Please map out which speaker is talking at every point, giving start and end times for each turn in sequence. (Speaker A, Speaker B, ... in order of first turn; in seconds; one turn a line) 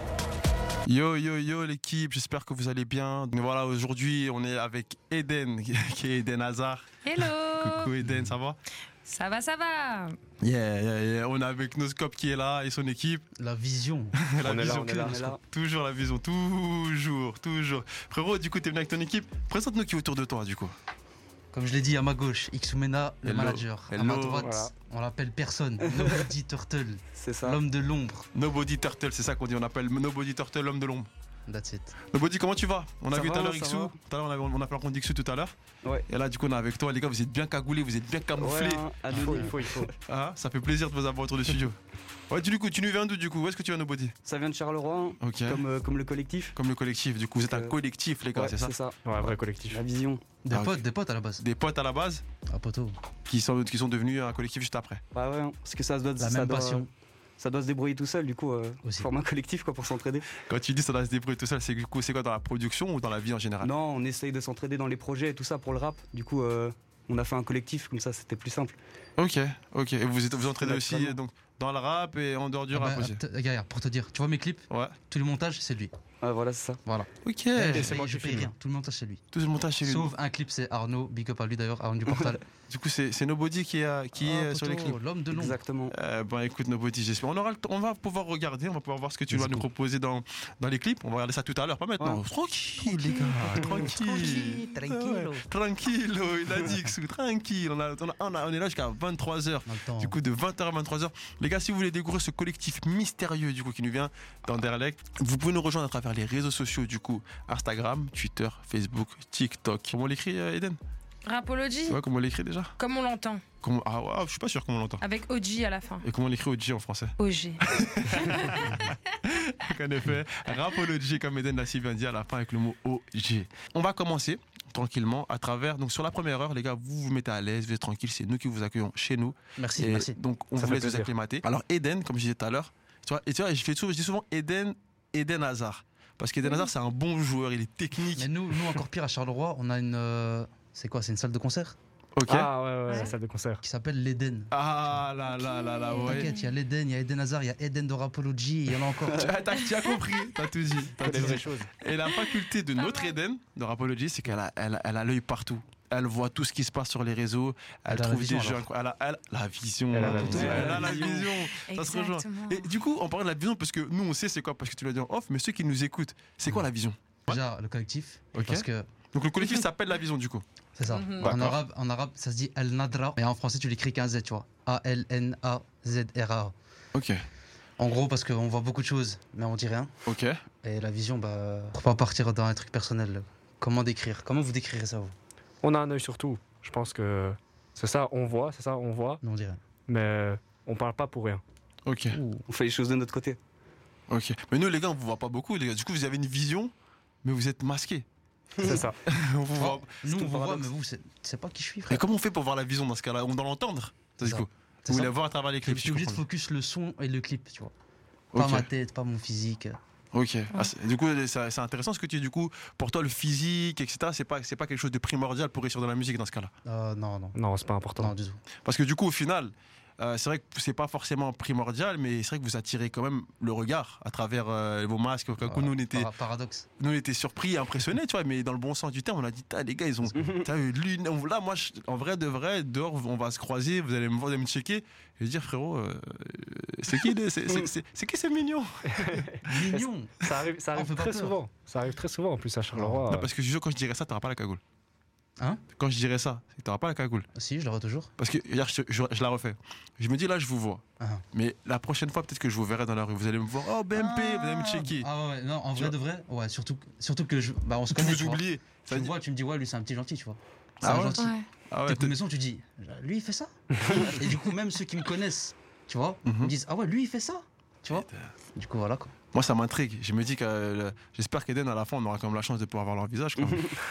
Speaker A: 0.8-8.6
Speaker B: 7.0-7.9
Speaker C: 8.0-8.3
Speaker B: 9.0-10.2
Speaker A: 10.4-13.2
Speaker C: 13.3-14.2
Speaker A: 14.2-20.7
Speaker D: 14.4-15.2
Speaker C: 14.9-15.2
Speaker E: 15.0-15.4
Speaker C: 21.5-28.3
Speaker A: 23.2-24.5
Speaker D: 24.4-24.7
Speaker E: 25.9-26.2
Speaker E: 27.2-27.6
Speaker A: 28.3-31.1
Speaker C: 31.5-31.9
Speaker A: 32.1-35.5
Speaker E: 33.1-33.9
Speaker A: 36.1-38.8
Speaker E: 38.4-39.9
Speaker D: 39.1-39.9
Speaker C: 39.1-39.5
Speaker A: 40.0-41.8
Speaker A: 42.3-44.1
Speaker E: 44.2-46.5
Speaker A: 45.2-45.6
Speaker A: 46.5-48.7
Speaker E: 47.5-47.7
Speaker E: 48.3-50.2
Speaker D: 49.0-49.8
Speaker C: 50.4-51.4
Speaker A: 50.5-50.8
Speaker A: 51.4-52.2
Speaker C: 52.5-53.0
Speaker A: 53.3-55.0
Speaker E: 55.1-56.9
Speaker C: 56.2-56.9
Speaker E: 57.4-60.3
Speaker C: 58.8-59.1
Speaker A: 60.5-63.7
Speaker E: 63.6-68.8
Speaker A: 69.2-73.2
Speaker E: 70.6-71.2
Speaker C: 72.7-75.9
Speaker A: 74.7-75.0
Speaker E: 76.2-76.8
Speaker C: 76.8-79.2
Speaker A: 77.2-77.9
Speaker D: 77.7-78.5
Speaker A: 79.3-80.1
Speaker C: 79.8-82.4
Speaker E: 82.1-82.4
Speaker A: 82.7-85.0
Speaker C: 84.2-85.6
Speaker E: 85.3-85.9
Speaker A: 85.9-110.8
Speaker C: 89.3-89.7
Speaker C: 93.0-95.4
Speaker C: 99.7-100.2
Speaker B: 111.2-112.0
Speaker A: 111.9-112.7
Speaker B: 112.8-113.4
Speaker A: 113.6-115.0
Speaker B: 115.0-116.0
Speaker A: 116.0-138.8
Speaker B: 117.2-117.6
Speaker B: 118.1-118.9
Speaker C: 129.6-130.2
Speaker D: 130.6-131.1
Speaker B: 136.4-136.7
Speaker C: 138.2-141.8
Speaker A: 142.2-142.5
Speaker D: 142.3-143.6
Speaker B: 142.9-143.1
Speaker C: 143.6-144.5
Speaker A: 144.5-146.3
Speaker B: 145.4-146.5
Speaker C: 146.0-149.3
Speaker A: 149.2-167.4
Speaker D: 151.0-151.7
Speaker B: 152.8-153.1
Speaker C: 157.9-158.6
Speaker D: 159.9-160.9
Speaker E: 160.0-161.2
Speaker B: 160.8-162.7
Speaker C: 167.3-168.9
Speaker A: 168.3-170.4
Speaker C: 170.8-176.5
Speaker B: 170.8-171.4
Speaker A: 171.2-171.6
Speaker A: 176.9-177.2
Speaker C: 177.8-179.9
Speaker A: 180.1-180.4
Speaker C: 180.6-185.1
Speaker D: 185.6-189.2
Speaker C: 189.2-189.6
Speaker D: 189.9-191.4
Speaker A: 191.8-192.2
Speaker C: 192.1-192.4
Speaker E: 192.5-193.4
Speaker A: 194.1-196.7
Speaker A: 197.2-198.0
Speaker E: 198.6-198.8
Speaker D: 198.6-199.0
Speaker A: 199.1-199.9
Speaker C: 199.6-202.0
Speaker E: 200.0-200.7
Speaker A: 201.9-206.2
Speaker C: 204.2-205.1
Speaker C: 205.6-207.7
Speaker A: 208.3-208.7
Speaker C: 208.3-209.8
Speaker A: 210.1-216.5
Speaker C: 216.7-217.4
Speaker D: 217.3-218.1
Speaker C: 218.0-218.4
Speaker A: 218.6-226.1
Speaker C: 225.4-226.7
Speaker A: 226.8-239.7
Speaker E: 230.2-230.5
Speaker D: 238.9-243.3
Speaker C: 239.5-240.1
Speaker C: 240.7-241.3
Speaker C: 242.7-243.0
Speaker A: 243.1-244.6
Speaker A: 245.8-247.3
Speaker C: 247.3-248.1
Speaker A: 248.2-255.1
Speaker C: 251.0-251.2
Speaker C: 253.9-269.1
Speaker A: 257.9-259.1
Speaker A: 260.8-262.2
Speaker B: 261.2-261.5
Speaker A: 266.2-266.5
Speaker A: 267.9-268.3
Speaker A: 269.3-273.8
Speaker E: 273.4-273.8